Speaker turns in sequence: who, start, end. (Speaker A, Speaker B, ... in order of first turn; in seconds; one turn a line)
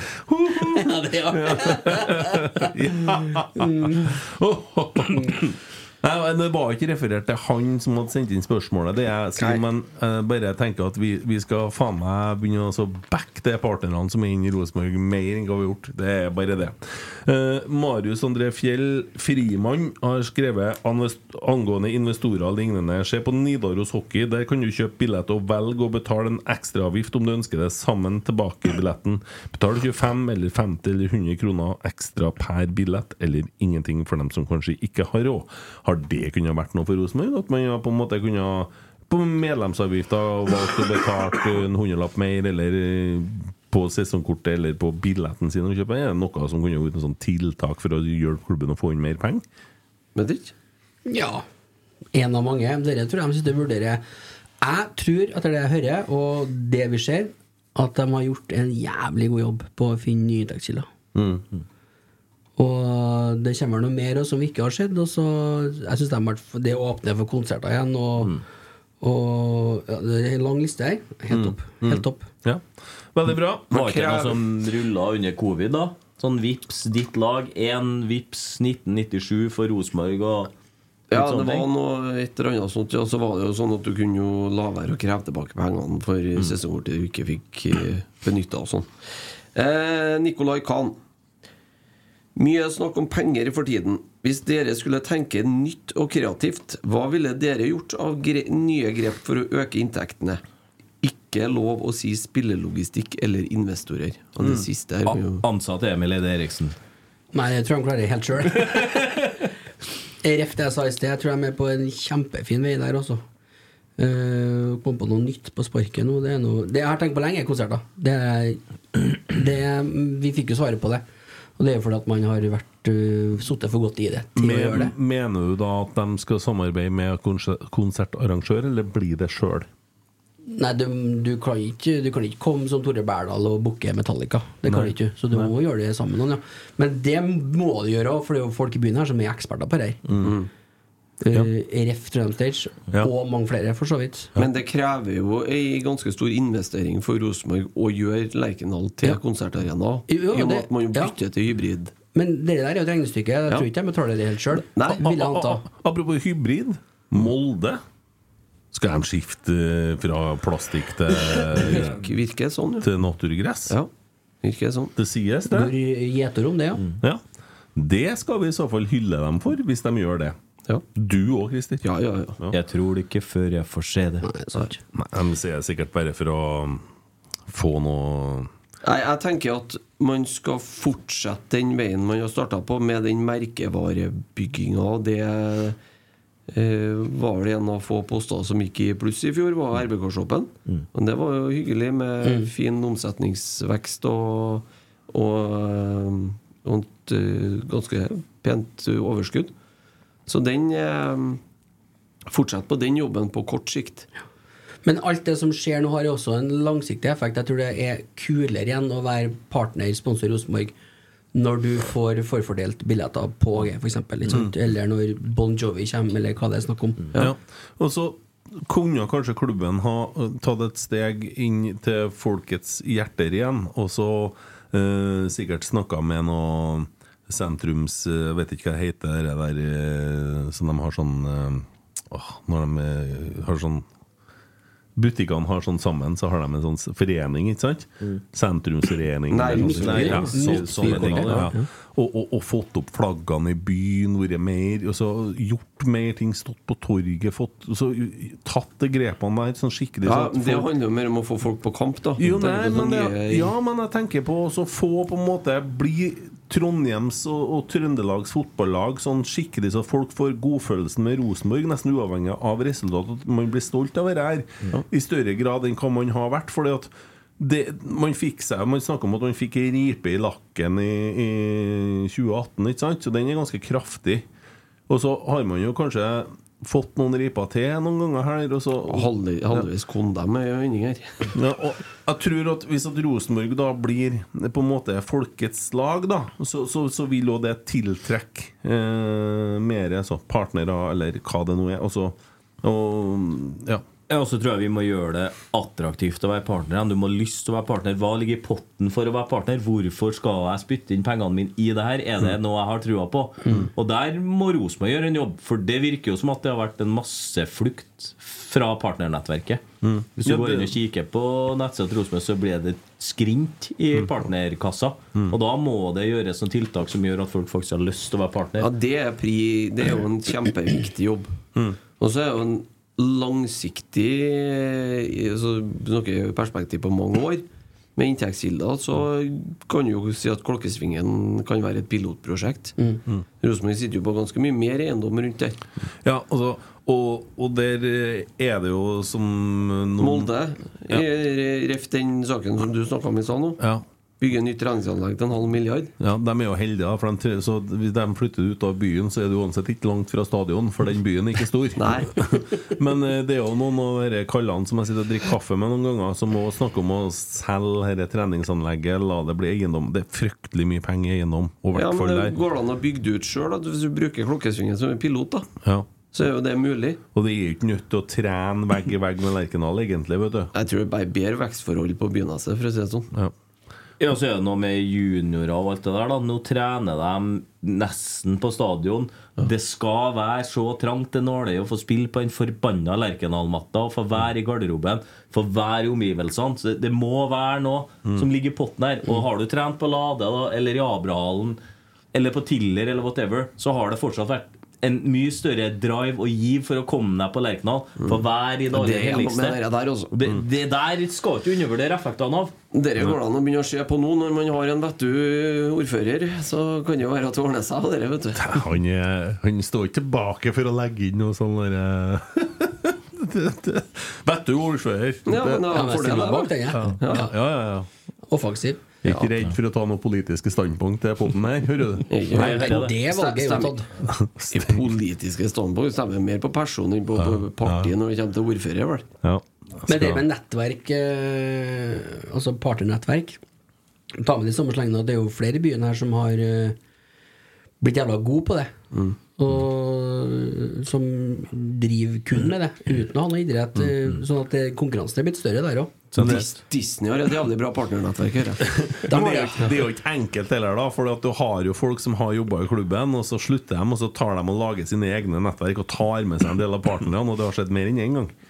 Speaker A: 0.3-49.4
Speaker B: 0.9-2.3
Speaker C: 9.4-9.6
Speaker C: 50.1-50.5
Speaker B: 51.1-51.4
Speaker B: 52.1-54.0
Speaker B: 54.6-60.9
Speaker A: 61.1-61.4
Speaker B: 62.6-68.4
Speaker B: 69.0-72.3
Speaker A: 71.3-72.6
Speaker A: 73.1-73.8
Speaker D: 73.7-80.5
Speaker C: 73.7-74.4
Speaker C: 81.1-88.9
Speaker D: 81.1-81.7
Speaker C: 89.5-91.0
Speaker C: 92.4-100.4
Speaker C: 101.0-105.4
Speaker D: 105.1-106.8
Speaker B: 107.3-109.3
Speaker B: 110.2-113.2
Speaker B: 114.0-121.0
Speaker B: 121.6-124.9
Speaker A: 124.4-129.7
Speaker B: 130.5-140.0
Speaker A: 134.7-135.5
Speaker A: 140.1-140.3
Speaker C: 140.2-140.5
Speaker B: 141.2-144.3
Speaker C: 144.4-151.9
Speaker B: 150.1-151.2
Speaker B: 152.1-155.6
Speaker C: 154.6-155.0
Speaker A: 155.0-157.8
Speaker A: 158.7-162.0
Speaker C: 161.4-162.9
Speaker A: 162.8-163.8
Speaker C: 164.4-164.9
Speaker A: 165.0-165.7
Speaker B: 165.5-166.9
Speaker A: 167.8-170.4
Speaker A: 170.9-171.9
Speaker C: 171.8-172.4
Speaker D: 172.5-174.3
Speaker B: 174.2-174.8
Speaker A: 174.9-176.8
Speaker A: 177.5-178.5
Speaker C: 178.8-185.8
Speaker C: 186.5-199.5
Speaker B: 192.2-192.5
Speaker C: 200.3-201.4
Speaker C: 202.3-204.1
Speaker B: 204.8-210.7
Speaker B: 211.3-217.1
Speaker A: 217.2-233.9
Speaker A: 235.0-250.7
Speaker C: 239.3-240.4
Speaker B: 239.5-241.5
Speaker D: 239.8-241.5
Speaker C: 250.0-253.5
Speaker A: 252.2-274.2
Speaker A: 274.9-279.7
Speaker C: 278.9-281.1
Speaker A: 281.3-293.8
Speaker D: 294.1-309.6
Speaker A: 309.8-310.7
Speaker D: 310.2-318.7
Speaker C: 318.6-321.3
Speaker C: 322.0-327.4
Speaker C: 328.0-332.8
Speaker C: 333.4-335.6
Speaker A: 336.0-340.3
Speaker C: 340.0-343.6
Speaker C: 344.2-345.9
Speaker A: 346.0-362.4
Speaker C: 351.8-352.1
Speaker C: 361.7-365.5
Speaker C: 366.0-367.0
Speaker A: 367.1-370.5
Speaker C: 370.5-373.1
Speaker D: 374.0-391.6
Speaker D: 392.1-399.6
Speaker C: 398.0-400.1
Speaker D: 400.1-402.6
Speaker C: 402.7-408.6
Speaker A: 408.4-415.8
Speaker C: 415.3-417.3
Speaker B: 415.7-417.3
Speaker A: 416.7-417.9
Speaker B: 418.3-419.0
Speaker A: 419.0-422.1
Speaker C: 422.1-423.8
Speaker D: 422.3-423.0
Speaker B: 422.3-423.9
Speaker A: 424.1-424.8
Speaker C: 424.5-429.1
Speaker A: 427.2-427.9
Speaker A: 429.2-430.2
Speaker B: 429.9-433.4
Speaker B: 434.2-436.8
Speaker B: 437.8-438.8
Speaker B: 439.4-446.1
Speaker A: 446.2-446.4
Speaker C: 446.2-449.4
Speaker A: 448.7-458.3
Speaker B: 449.1-449.7